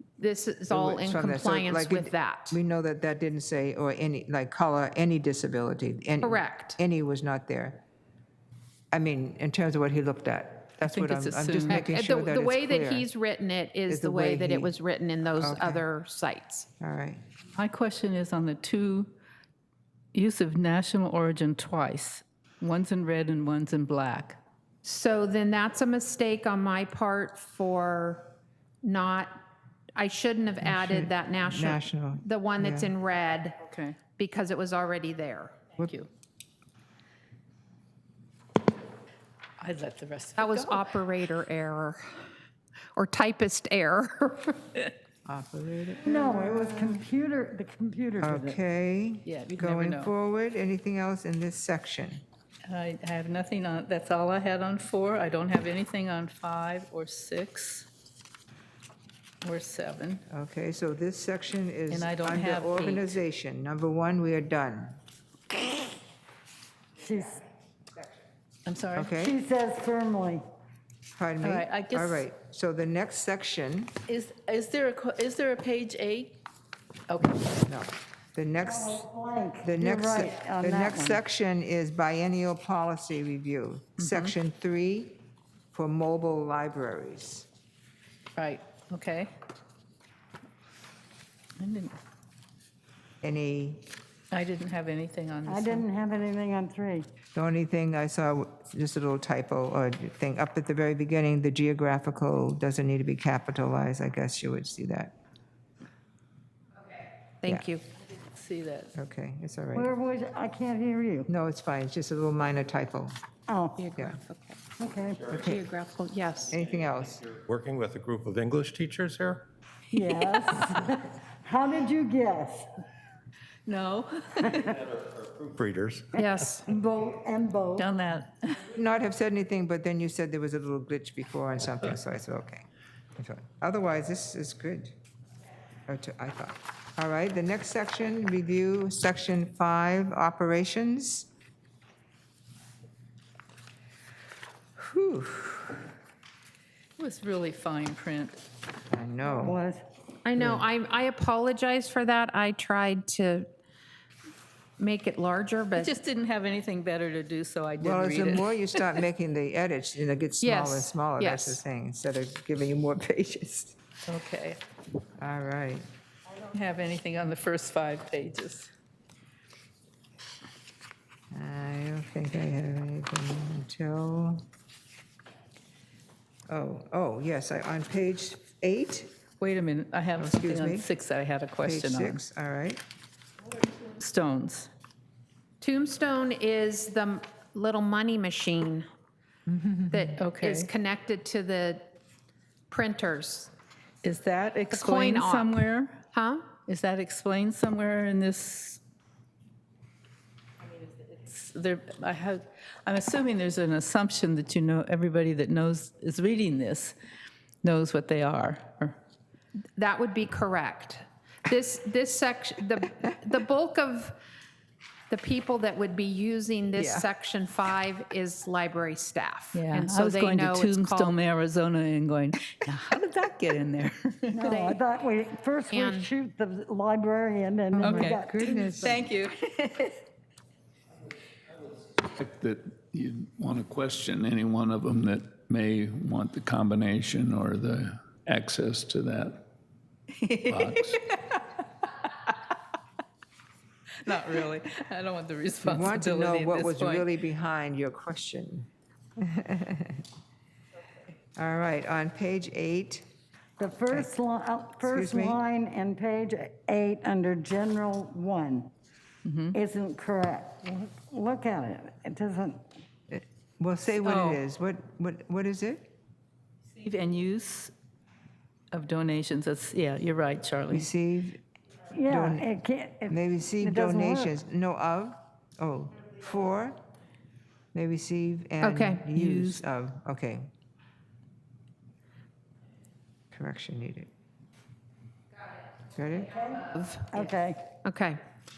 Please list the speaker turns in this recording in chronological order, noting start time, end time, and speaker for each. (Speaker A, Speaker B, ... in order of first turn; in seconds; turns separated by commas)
Speaker A: 0.2-2.6, Speaker B: 0.7-7.8, Speaker A: 6.2-6.8, Speaker B: 8.9-13.1, Speaker C: 10.8-11.9, Speaker A: 11.7-16.7, Speaker B: 13.9-14.7, Speaker B: 15.3-15.8, Speaker B: 16.8-17.2, Speaker C: 17.6-19.1, Speaker C: 20.1-24.4, Speaker A: 24.8-28.3, Speaker A: 28.8-29.4, Speaker A: 29.9-35.7, Speaker B: 30.6-32.9, Speaker C: 33.6-34.0, Speaker C: 35.8-36.1, Speaker C: 39.6-40.9, Speaker A: 40.4-42.3, Speaker A: 43.0-44.7, Speaker B: 45.2-47.0, Speaker D: 46.0-48.6, Speaker B: 48.2-52.2, Speaker C: 49.3-50.1, Speaker C: 52.7-57.9, Speaker C: 59.4-60.2, Speaker B: 60.3-65.0, Speaker C: 61.9-63.1, Speaker D: 67.0-67.4, Speaker C: 68.7-69.1, Speaker B: 69.0-69.4, Speaker D: 69.2-70.4, Speaker B: 71.2-73.9, Speaker C: 71.4-72.2, Speaker C: 74.1-76.4, Speaker C: 77.1-77.5, Speaker B: 77.6-79.1, Speaker D: 78.7-81.2, Speaker B: 79.6-85.2, Speaker C: 84.0-84.3, Speaker B: 85.7-87.5, Speaker C: 88.4-89.3, Speaker C: 91.6-92.0, Speaker B: 93.2-93.9, Speaker C: 94.3-95.8, Speaker D: 95.5-97.1, Speaker B: 97.3-105.1, Speaker A: 107.4-107.8, Speaker C: 108.0-108.9, Speaker B: 109.0-109.9, Speaker D: 109.8-111.3, Speaker B: 111.3-113.2, Speaker D: 113.5-113.8, Speaker A: 113.8-114.6, Speaker D: 114.8-115.4, Speaker B: 115.3-115.6, Speaker A: 115.4-116.5, Speaker B: 116.5-117.3, Speaker E: 117.2-119.5, Speaker D: 119.9-122.7, Speaker C: 123.7-124.8, Speaker E: 124.9-126.2, Speaker A: 126.2-126.6, Speaker D: 126.2-127.9, Speaker C: 127.8-128.6, Speaker B: 128.7-132.7, Speaker B: 133.2-134.9, Speaker B: 135.9-141.3, Speaker B: 144.8-145.8, Speaker C: 147.0-148.4, Speaker B: 148.9-149.6, Speaker D: 149.3-149.8, Speaker A: 150.2-153.5, Speaker B: 150.4-150.6, Speaker A: 154.8-156.0, Speaker C: 155.8-158.9, Speaker B: 157.8-163.8, Speaker A: 160.4-161.6, Speaker C: 164.1-164.6, Speaker B: 165.2-165.9, Speaker C: 166.5-168.7, Speaker B: 171.3-174.5, Speaker B: 176.5-179.1, Speaker C: 179.4-182.2, Speaker B: 180.2-180.9, Speaker B: 181.6-182.8, Speaker C: 183.9-184.7, Speaker A: 185.6-188.9, Speaker B: 189.5-190.2, Speaker A: 189.9-191.9, Speaker C: 190.2-190.7, Speaker A: 192.7-193.5, Speaker C: 194.0-196.0, Speaker A: 194.7-196.5, Speaker C: 196.6-198.8, Speaker C: 201.1-207.0, Speaker C: 207.6-209.0, Speaker A: 209.8-214.2, Speaker A: 215.1-221.1, Speaker C: 216.8-217.1, Speaker C: 219.5-224.8, Speaker D: 224.3-229.0, Speaker A: 225.7-226.1, Speaker B: 227.8-229.0, Speaker C: 227.8-229.9, Speaker F: 232.1-239.5, Speaker C: 240.2-241.2, Speaker F: 240.5-241.0, Speaker C: 244.0-247.1, Speaker B: 245.6-248.7, Speaker B: 249.2-250.0, Speaker B: 251.4-253.1, Speaker D: 253.6-258.7, Speaker B: 254.8-255.4, Speaker C: 259.2-259.6, Speaker D: 259.5-262.6, Speaker B: 263.1-265.9, Speaker C: 264.0-264.4, Speaker C: 266.8-267.7, Speaker C: 268.7-270.9, Speaker B: 270.7-271.4, Speaker D: 271.9-274.3, Speaker B: 272.1-272.5, Speaker B: 273.1-276.8, Speaker B: 277.7-280.5, Speaker A: 278.6-279.1, Speaker C: 279.1-279.6, Speaker B: 283.3-284.1, Speaker B: 285.9-286.4, Speaker D: 286.6-287.8, Speaker A: 287.8-288.2